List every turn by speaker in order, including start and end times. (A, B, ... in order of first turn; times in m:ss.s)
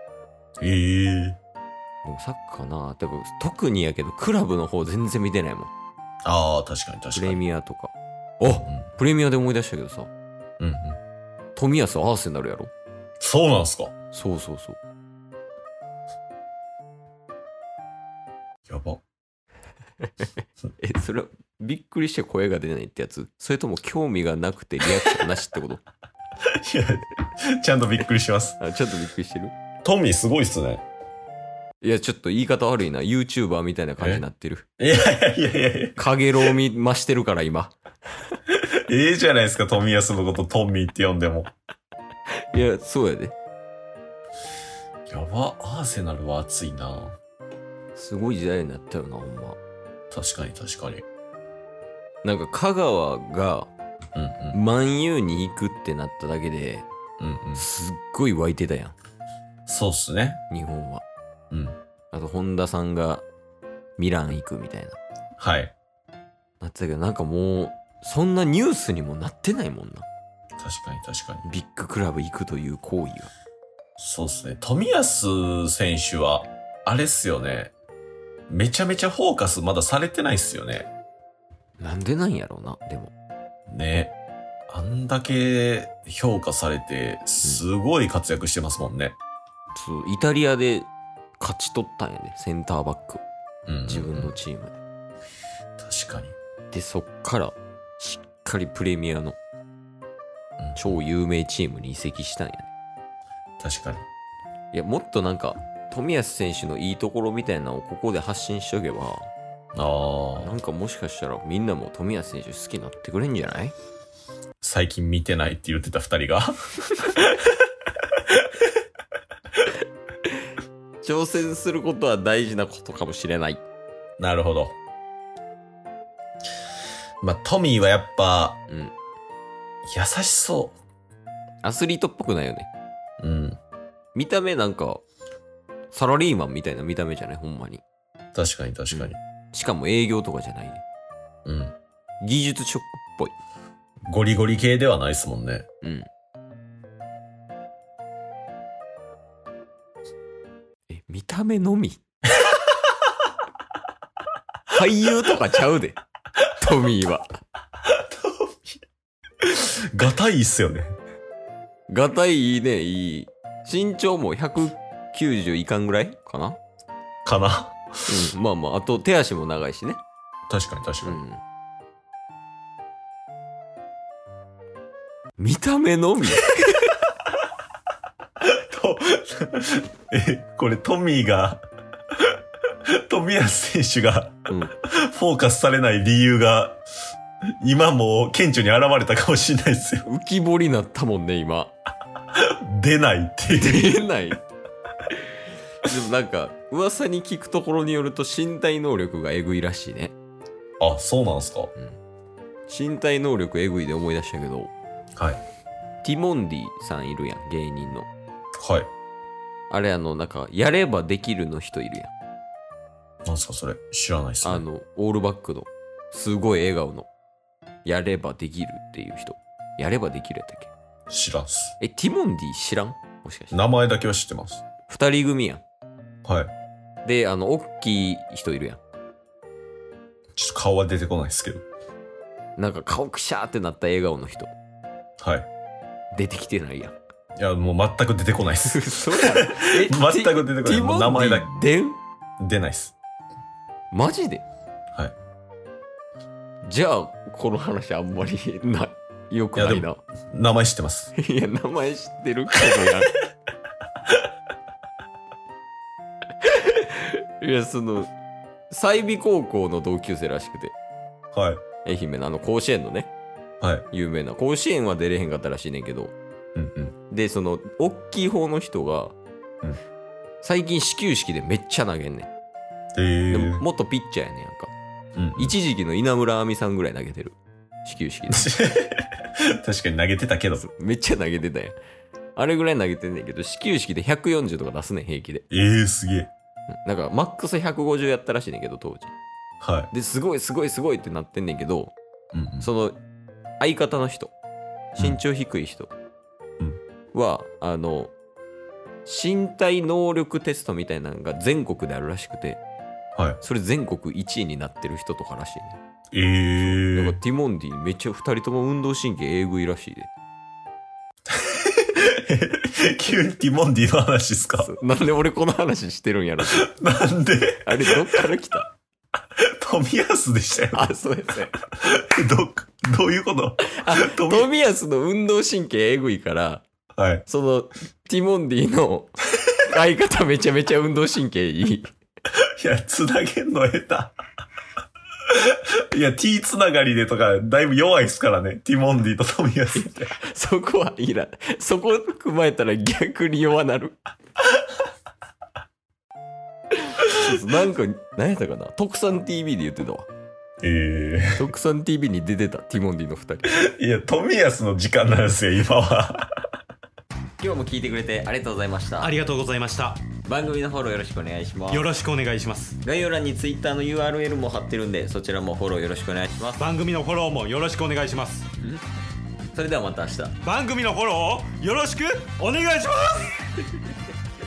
0:00.6-0:01.4 A
0:02.0-0:05.7 B
0:06.2-0:07.4 A
0:07.2-0:10.1 B
0:08.5-0:08.8 A
0:10.6-0:11.0 A
0:11.6-0:12.7 B
0:13.2-0:13.9 A
0:14.1-0:14.8 B
0:18.7-0:19.0 A
0:20.8-0:25.8 B
0:26.4-0:28.6 A
0:28.6-0:29.5 B
0:29.8-0:30.8 A
0:31.8-0:34.7 B
0:34.0-0:34.2 A
0:34.8-0:36.5 A
0:36.0-0:37.7 B
0:38.5-0:41.5 A
0:42.3-0:43.4 B
0:45.1-0:47.2 A
0:48.0-0:49.6 B
0:50.1-0:51.0 A
0:52.2-0:53.7 B
0:54.2-0:54.6 A
0:54.5-0:56.9 B
0:57.2-0:57.6 A
0:57.6-0:59.0 B
0:59.7-1:00.4 A
1:00.5-1:01.0 B
1:01.5-1:01.8 A
1:02.1-1:03.2 B
1:04.0-1:05.0 B
1:05.4-1:05.7 A
1:06.6-1:10.1 B
1:10.6-1:11.4 A
1:11.4-1:13.3 B
1:14.0-1:17.7 A
1:18.5-1:20.9 A
1:21.8-1:23.1 B
1:23.7-1:24.1 A
1:24.7-1:29.2 A
1:29.7-1:33.2 B
1:33.7-1:34.3 A
1:33.9-1:34.8 B
1:35.8-1:36.4 A
1:36.7-1:39.4 B
1:40.6-1:41.0 A
1:40.8-1:42.7 B
1:43.6-1:44.0 A
1:44.7-1:49.3 B
1:49.8-1:50.5 A
1:50.4-1:53.8 B
1:54.6-1:57.6 A
1:58.2-1:58.5 A
2:01.0-2:03.6 B
2:04.2-2:04.8 A
2:07.2-2:08.6 A
2:08.7-2:09.0 B
2:09.8-2:10.8 A
2:11.6-2:12.7 B
2:13.2-2:13.6 A
2:14.2-2:15.0 B
2:15.9-2:17.8 B
2:18.4-2:19.2 A
2:18.9-2:20.8 B
2:21.4-2:21.8 A
2:22.2-2:23.3 B
2:24.1-2:25.7 A
2:25.8-2:26.1 B
2:30.9-2:32.0 B
2:34.7-2:36.0 B
2:36.5-2:37.4 B
2:37.8-2:38.8 A
2:39.4-2:41.0 A
2:41.9-2:46.6 B
2:47.2-2:48.2 A
2:48.1-2:50.0 B
2:50.5-2:51.2 A
2:51.0-2:51.4 B
2:55.4-2:56.9 B
2:58.4-3:01.6 A
3:02.2-3:06.8 A
3:04.5-3:04.7 B
3:07.6-3:10.1 A
3:10.0-3:11.7 B
3:12.4-3:14.0 A
3:13.6-3:14.4 B
3:15.8-3:20.2 B
3:20.8-3:21.7 A
3:22.7-3:24.7 B
3:26.0-3:28.1 B
3:28.6-3:28.9 A
3:29.7-3:32.1 B
3:33.3-3:34.6 A
3:34.4-3:37.1 B
3:37.8-3:40.7 B
3:41.1-3:41.8 A
3:41.8-3:43.6 B
3:43.5-3:44.6 A
3:44.9-3:45.6 B
3:46.2-3:46.5 A
3:47.0-3:48.8 B
3:50.4-3:51.6 A
3:52.6-3:54.5 B
3:55.2-3:55.5 A
3:56.1-3:57.0 B
3:57.4-4:01.5 A
3:58.7-4:02.0 B
4:02.4-4:03.0 A
4:03.9-4:04.4 B
4:06.6-4:10.0 B
4:09.6-4:11.1 A
4:11.2-4:13.1 B
4:12.6-4:13.0 A
4:16.4-4:18.1 B
4:18.7-4:20.8 B
4:21.3-4:21.6 A
4:21.8-4:23.1 B
4:23.9-4:26.2 B
4:26.6-4:27.0 A
4:27.1-4:29.2 B
4:30.4-4:32.3 B
4:33.0-4:33.6 A
4:33.3-4:34.7 B
4:35.2-4:35.6 A
4:35.4-4:38.5 B
4:38.3-4:40.7 A
4:40.6-4:41.8 B
4:42.4-4:45.5 B
4:45.5-4:46.3 A
4:46.7-4:49.1 B
4:49.6-4:49.9 A
4:49.9-4:52.0 B
4:52.3-4:52.7 A
4:52.6-4:53.0 B
4:53.6-4:54.3 B
4:55.0-4:55.9 B
4:57.1-4:58.1 B
4:59.0-5:02.6 B
5:03.4-5:05.8 B
5:06.1-5:07.2 A
5:06.6-5:10.1 B
5:11.3-5:14.7 A
5:14.6-5:16.7 B
5:16.4-5:18.3 A
5:17.6-5:18.7 B
5:19.4-5:20.9 A
5:20.7-5:21.6 B
5:21.8-5:24.5 A
5:23.7-5:26.6 B
5:27.0-5:27.2 A
5:27.3-5:31.9 B
5:32.3-5:34.2 A
5:35.3-5:40.2 A
5:39.8-5:44.0 B
5:46.7-5:50.1 B
5:50.6-5:51.5 A
5:51.4-5:53.5 B
5:53.5-5:56.4 A
5:57.4-5:59.2 B
5:59.0-6:00.0 C
6:00.2-6:01.9 B
6:01.7-6:02.8 C
6:02.8-6:06.7 B
6:06.6-6:08.5 C
6:09.5-6:10.4 B
6:10.4-6:13.4 C